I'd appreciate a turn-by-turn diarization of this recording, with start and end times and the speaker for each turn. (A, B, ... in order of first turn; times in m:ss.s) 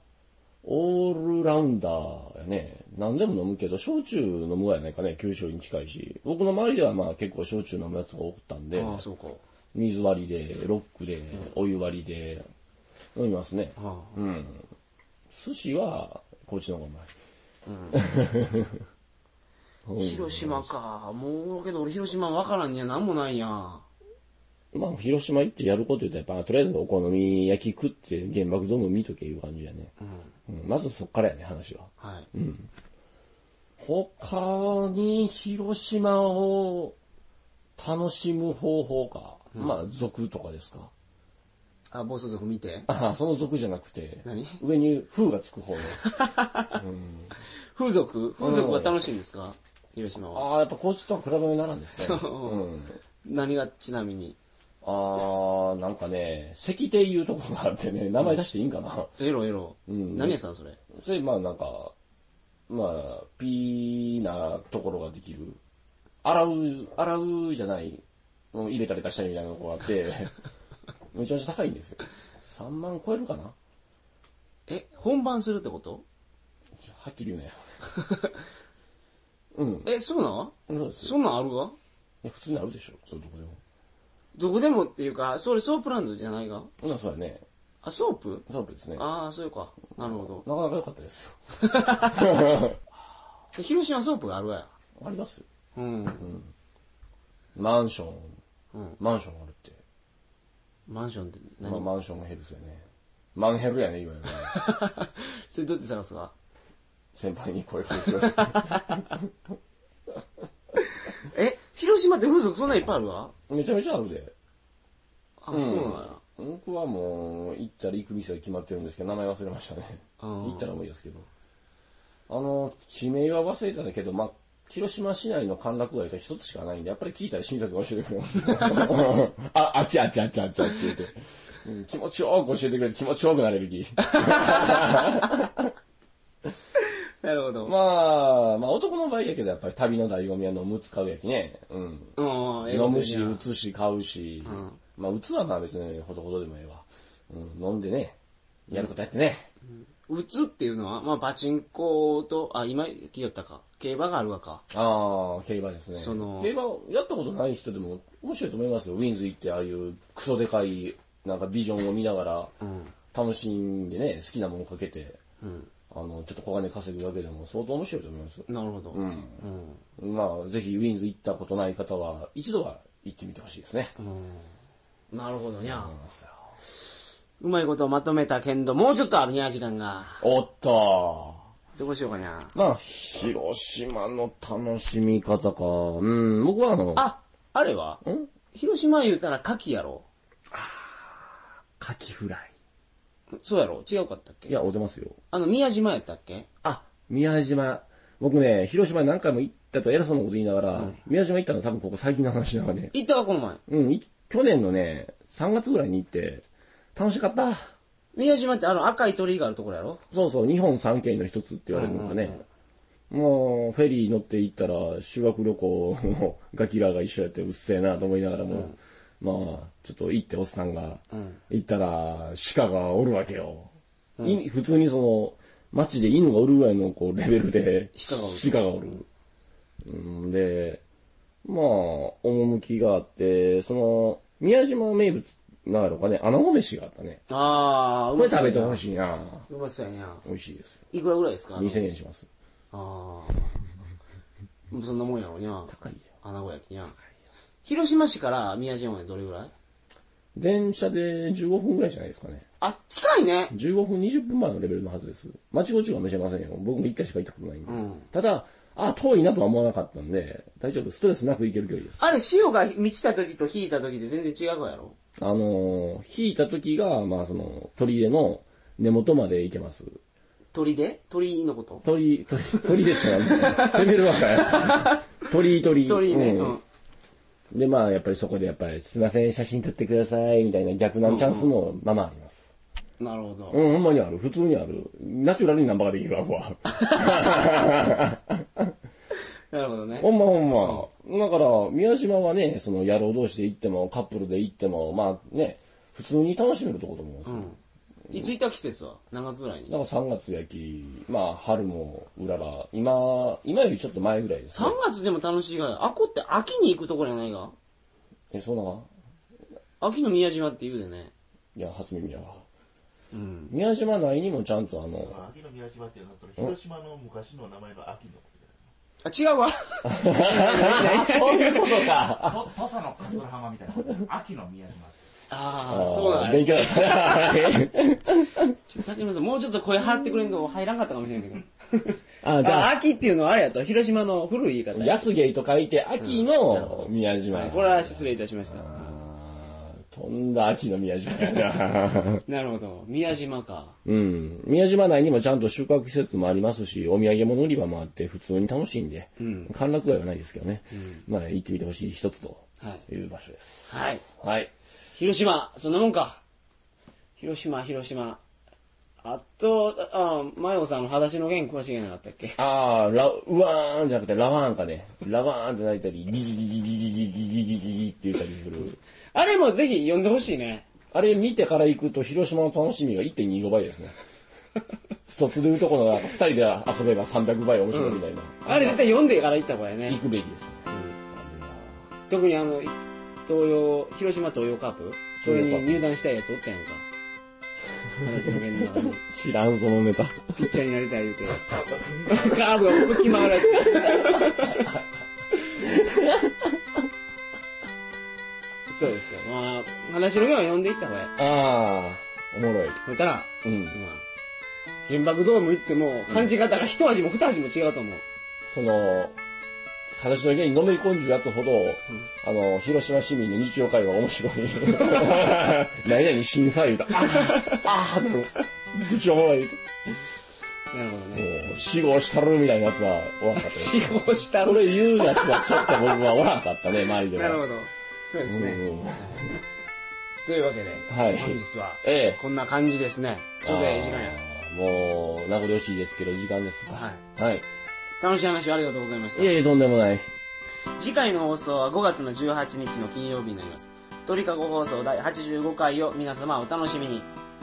0:00.6-0:09.1 A
0:08.7-0:09.4 B
0:09.7-0:12.4 A
0:13.2-0:14.7 A
0:13.8-0:14.1 B
0:15.3-0:17.1 A
0:17.7-0:18.0 B
0:17.9-0:18.8 A
0:19.9-0:20.7 A
0:20.0-0:23.9 B
0:24.7-0:29.9 A
0:30.5-0:32.7 A
0:32.0-0:32.3 B
0:33.8-0:37.0 A
0:37.8-0:40.9 A
0:41.9-0:42.9 B
0:42.9-0:46.0 A
0:44.2-0:44.6 B
0:45.9-0:46.8 B
0:46.7-0:47.3 A
0:47.7-0:50.5 B
0:48.4-0:49.0 A
0:50.3-0:53.0 A
0:52.0-0:52.6 B
0:53.2-0:54.4 B
0:54.8-0:59.2 A
0:59.2-1:00.8 B
0:59.9-1:00.4 A
1:00.9-1:02.0 A
1:02.7-1:05.6 A
1:06.2-1:08.0 A
1:08.5-1:10.3 A
1:11.1-1:13.6 A
1:14.7-1:16.0 B
1:16.8-1:17.6 A
1:18.0-1:18.3 B
1:19.6-1:19.9 A
1:19.8-1:21.8 B
1:20.7-1:21.2 A
1:22.2-1:23.6 A
1:24.4-1:26.7 B
1:26.8-1:27.4 A
1:27.8-1:28.4 B
1:28.5-1:29.1 A
1:29.0-1:30.5 B
1:30.0-1:32.8 A
1:31.6-1:32.3 B
1:33.5-1:34.7 B
1:35.0-1:35.5 A
1:35.8-1:36.2 B
1:36.2-1:36.5 A
1:37.6-1:38.4 A
1:38.7-1:39.0 B
1:39.0-1:39.8 A
1:40.9-1:41.9 B
1:41.6-1:44.7 A
1:44.3-1:46.3 B
1:47.1-1:49.3 A
1:47.9-1:49.1 B
1:51.2-1:53.3 B
1:53.5-1:54.3 A
1:55.4-1:56.2 B
1:55.5-2:01.3 A
2:00.2-2:00.7 B
2:02.3-2:15.7 A
2:08.6-2:08.9 B
2:14.1-2:15.1 B
2:17.2-2:17.7 B
2:17.6-2:28.2 A
2:22.2-2:23.4 B
2:24.4-2:24.8 B
2:28.7-2:29.5 A
2:30.1-2:34.6 B
2:34.7-2:42.5 A
2:35.9-2:36.5 B
2:42.6-2:42.9 B
2:43.1-2:45.2 A
2:45.4-2:45.7 B
2:45.9-2:49.4 A
2:48.5-2:49.8 B
2:50.0-2:54.0 A
2:54.0-2:54.5 B
2:55.1-2:56.0 B
2:55.2-2:56.6 A
2:57.4-3:00.2 B
3:00.2-3:01.4 A
3:01.8-3:02.5 B
3:02.5-3:07.1 A
3:07.0-3:08.0 B
3:08.0-3:08.3 A
3:08.5-3:10.1 B
3:10.5-3:12.5 A
3:13.4-3:14.5 B
3:14.5-3:15.2 A
3:15.3-3:16.5 B
3:16.6-3:22.9 A
3:22.9-3:23.6 B
3:23.7-3:27.6 A
3:28.2-3:30.0 B
3:30.1-3:32.4 A
3:31.7-3:32.4 B
3:33.1-3:49.1 A
3:38.5-3:38.8 B
3:41.1-3:41.4 B
3:48.0-3:48.6 B
3:49.8-3:50.8 A
3:51.4-3:57.2 A
3:57.3-3:58.8 B
3:58.2-3:59.5 A
3:59.5-4:00.2 B
4:00.2-4:00.8 A
4:00.9-4:01.9 B
4:01.6-4:02.3 A
4:02.7-4:03.5 B
4:04.7-4:07.0 B
4:05.7-4:06.1 A
4:07.6-4:09.5 B
4:10.4-4:12.4 A
4:12.6-4:13.5 B
4:13.5-4:22.1 A
4:17.7-4:18.1 B
4:22.0-4:25.0 B
4:25.2-4:30.0 A
4:30.5-4:31.9 B
4:31.8-4:36.6 A
4:32.6-4:35.1 B
4:35.8-4:36.6 B
4:37.5-4:42.5 A
4:41.0-4:41.5 B
4:43.0-4:43.6 B
4:43.5-4:48.7 A
4:49.5-4:50.9 B
4:50.0-4:57.5 A
4:57.3-4:57.6 B
4:58.1-4:59.8 B
4:59.7-5:04.8 A
5:04.5-5:07.6 B
5:08.3-5:08.9 A
5:09.8-5:11.1 B
5:11.6-5:12.5 A
5:13.1-5:13.5 B
5:13.5-5:15.3 A
5:15.2-5:18.5 C
5:19.0-5:22.0 B
5:19.8-5:22.5 A
5:22.3-5:25.0 C
5:25.3-5:27.6 B
5:25.7-5:28.5 A
5:28.7-5:35.1 B
5:32.2-5:32.8 A
5:34.7-5:42.2 A
5:36.0-5:39.0 B
5:42.3-5:43.8 B
5:43.8-5:54.5 A
5:49.2-5:49.5 B
5:50.8-5:51.0 B
5:53.7-5:54.0 B
5:55.0-5:56.2 B
5:57.2-5:58.2 B
5:59.0-6:02.4 B
6:02.4-6:08.8 A
6:09.1-6:10.7 B
6:10.9-6:14.0 A
6:15.1-6:18.9 A
6:17.7-6:20.0 B
6:19.9-6:21.9 A
6:20.7-6:21.0 B
6:22.1-6:26.9 B
6:25.2-6:25.8 A
6:28.0-6:29.0 B
6:28.0-6:30.3 A
6:30.3-6:34.7 B
6:32.1-6:34.6 A
6:35.6-6:36.6 A
6:38.7-6:41.1 B
6:41.2-6:42.8 A
6:42.8-6:44.0 B
6:43.4-6:43.8 A
6:44.9-6:48.0 B
6:46.1-6:46.3 A
6:48.5-6:49.2 A
6:50.0-6:59.6 A
6:57.0-6:57.6 B
7:00.7-7:01.4 B
7:01.0-7:07.4 A
7:03.4-7:06.0 B
7:06.9-7:09.3 B
7:08.3-7:09.3 A
7:10.2-7:14.2 B
7:10.9-7:12.2 A
7:13.4-7:17.5 A
7:16.7-7:17.0 B
7:18.0-7:19.4 B
7:19.2-7:20.1 A
7:20.8-7:27.1 B